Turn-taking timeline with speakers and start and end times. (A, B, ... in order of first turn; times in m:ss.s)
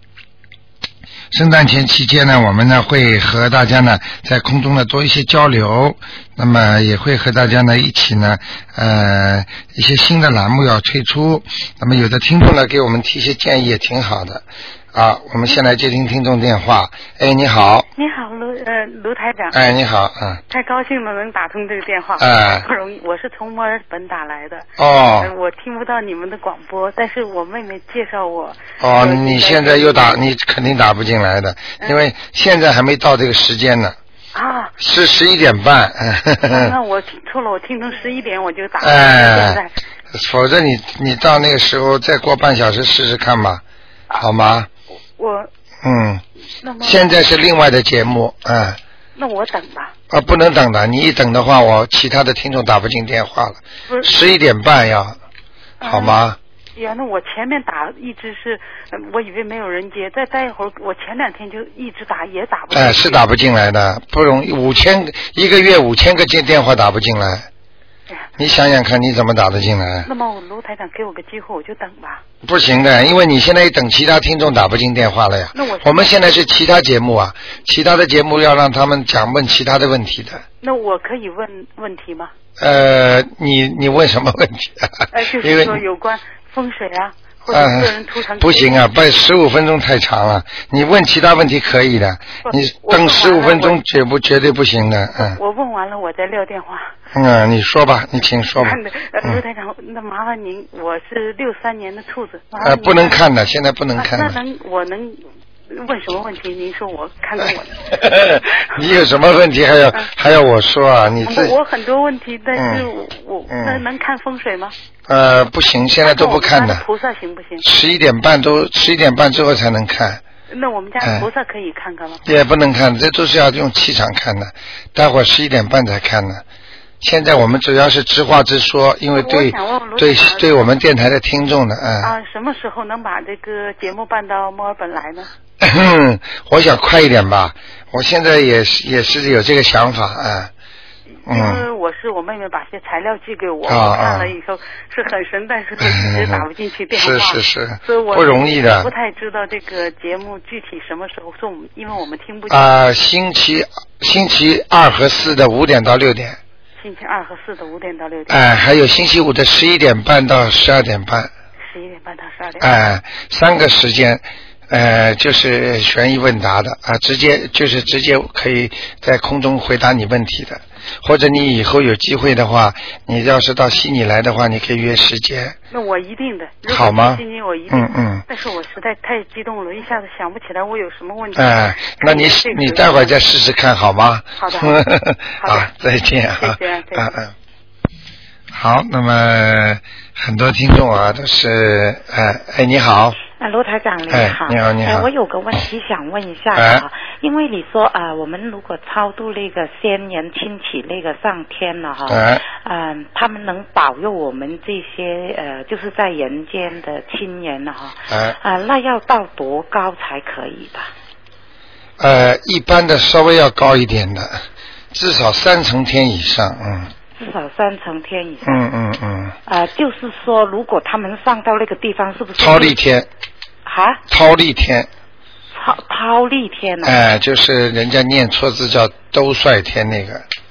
0:01.3-0:17.9 A
0:18.0-0:19.6 B
0:19.5-0:20.4 A
0:20.5-0:30.2 B
0:22.2-0:22.6 A
0:24.8-0:25.3 A
0:28.8-0:34.0 A
0:31.8-0:32.0 B
0:34.3-0:34.7 B
0:34.8-0:36.7 A
0:36.5-0:39.7 B
0:38.8-0:39.6 A
0:40.1-0:43.6 A
0:44.2-0:44.7 A
0:45.2-0:45.5 B
0:45.8-0:46.2 A
0:46.6-0:47.1 B
0:46.8-0:48.8 A
0:49.2-0:49.9 B
0:50.1-0:55.2 A
0:53.9-0:54.3 B
0:55.8-0:56.2 B
0:55.8-0:56.4 A
0:56.8-1:03.2 B
1:02.7-1:07.5 A
1:08.4-1:10.1 A
1:10.0-1:12.2 B
1:12.4-1:20.4 A
1:15.5-1:16.3 B
1:20.6-1:22.3 B
1:22.6-1:25.8 A
1:25.1-1:28.9 B
1:27.5-1:35.4 A
1:32.4-1:33.8 B
1:35.2-1:36.9 B
1:37.1-1:39.4 A
1:38.6-1:43.2 B
1:42.6-1:44.4 A
1:44.0-1:49.0 B
1:47.4-1:51.6 A
1:51.2-1:54.7 B
1:52.5-1:52.9 A
1:53.5-1:53.8 A
1:55.1-1:56.8 A
1:56.0-1:57.6 B
1:57.6-2:00.2 A
2:00.5-2:02.2 B
2:01.0-2:01.3 A
2:02.2-2:06.4 A
2:07.0-2:12.1 A
2:09.1-2:10.7 B
2:12.0-2:15.3 B
2:15.6-2:20.5 A
2:21.3-2:21.6 A
2:21.3-2:32.8 B
2:23.7-2:24.3 A
2:25.8-2:28.9 A
2:32.5-2:36.4 A
2:36.8-2:38.6 B
2:38.3-2:41.3 A
2:41.7-2:42.7 B
2:42.6-2:55.6 A
2:55.7-3:03.1 B
2:56.7-2:58.2 A
3:01.3-3:07.3 A
3:04.4-3:04.8 B
3:05.4-3:05.7 B
3:06.4-3:07.2 B
3:08.5-3:13.2 A
3:13.3-3:30.9 C
3:14.1-3:15.1 A
3:16.5-3:16.8 A
3:22.1-3:22.4 A
3:28.1-3:28.4 A
3:32.0-3:34.4 A
3:34.9-3:36.9 A
3:37.2-3:38.6 C
3:38.4-3:39.4 A
3:39.5-3:42.8 C
3:42.4-3:43.1 A
3:43.6-3:44.0 C
3:44.1-3:44.9 A
3:45.5-3:47.0 C
3:46.8-3:50.2 A